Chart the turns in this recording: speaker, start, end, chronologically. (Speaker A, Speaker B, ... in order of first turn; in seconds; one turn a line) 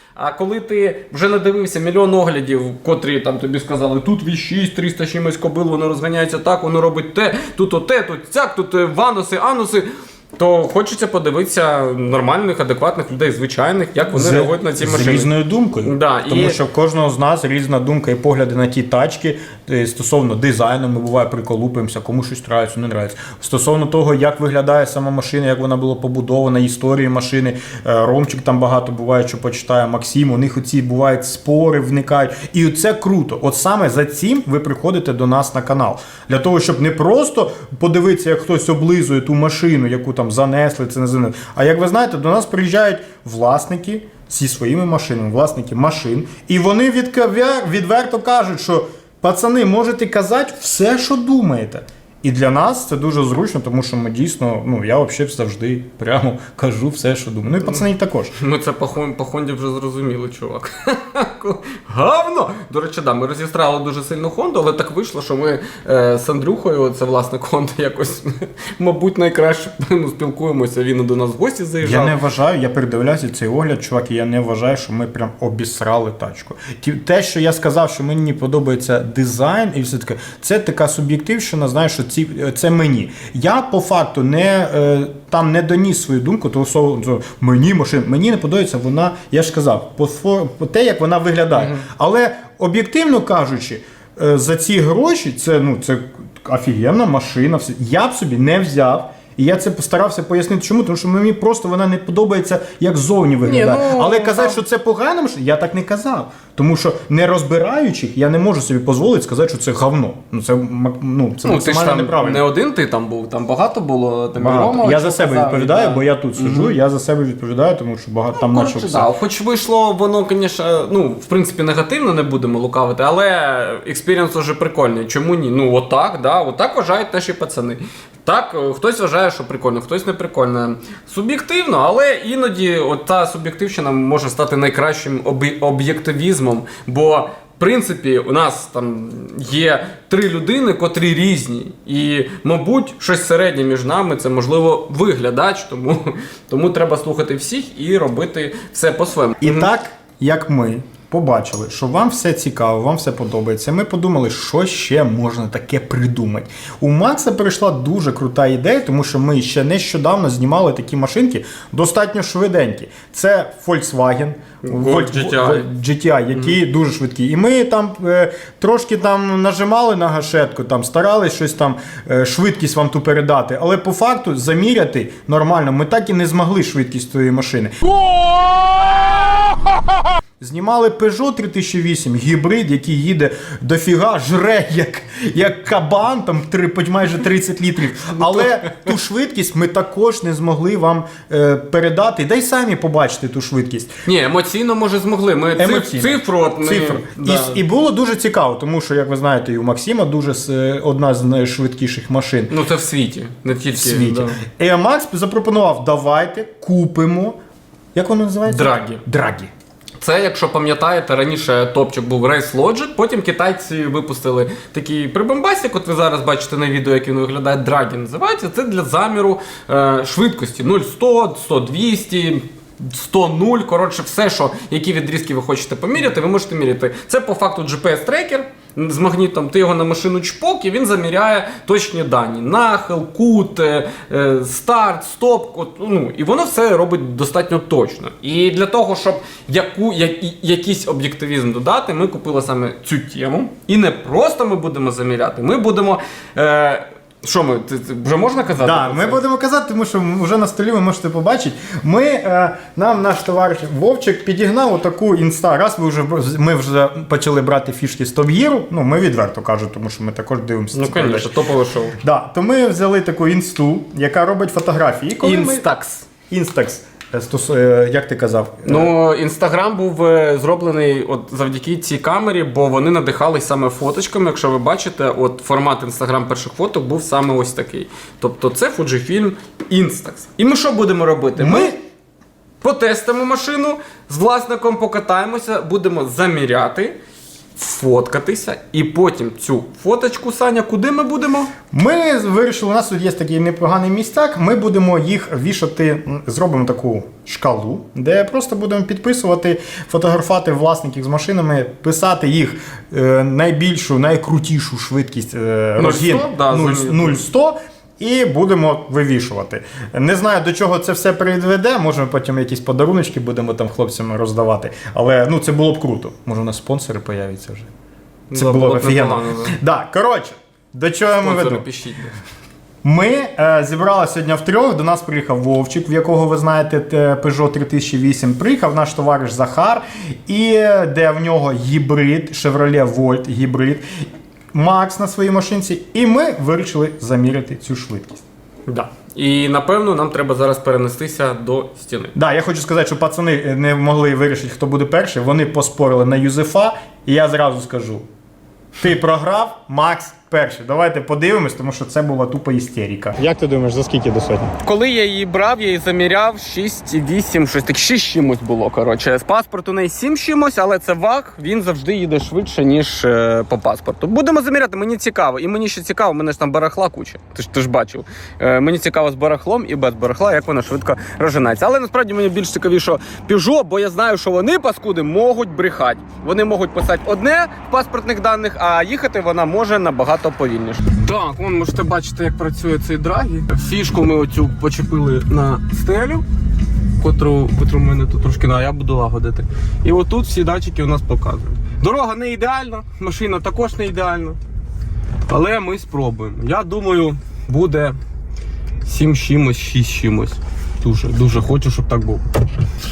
Speaker A: 0.1-15.3
Speaker B: 14.1-58.3
Speaker A: 15.8-16.6
Speaker A: 57.6-72.2
Speaker B: 71.8-112.5
Speaker A: 91.5-91.9
Speaker A: 103.4-104.6
Speaker A: 111.5-116.8
Speaker B: 114.4-119.1
Speaker A: 118.3-149.7
Speaker B: 149.4-177.9
Speaker A: 164.6-165.7
Speaker A: 178.0-179.0
Speaker B: 180.4-193.9
Speaker A: 194.1-197.6
Speaker B: 195.6-202.5
Speaker A: 202.5-204.4
Speaker B: 203.8-207.4
Speaker B: 207.9-209.5
Speaker A: 208.5-209.0
Speaker A: 210.0-249.2
Speaker B: 248.6-261.3
Speaker A: 260.7-262.0
Speaker B: 262.0-265.6
Speaker A: 265.2-266.1
Speaker B: 266.3-268.9
Speaker A: 268.6-281.8
Speaker B: 281.4-281.8
Speaker A: 282.6-287.0
Speaker A: 287.6-291.5
Speaker B: 291.7-317.7
Speaker A: 305.8-307.2
Speaker A: 318.3-319.6
Speaker B: 318.3-321.6
Speaker A: 321.2-322.1
Speaker B: 322.8-338.2
Speaker A: 338.7-342.1
Speaker B: 342.1-348.1
Speaker B: 348.8-354.5
Speaker A: 354.6-386.2
Speaker A: 387.0-394.4
Speaker A: 395.3-398.0
Speaker A: 398.9-402.2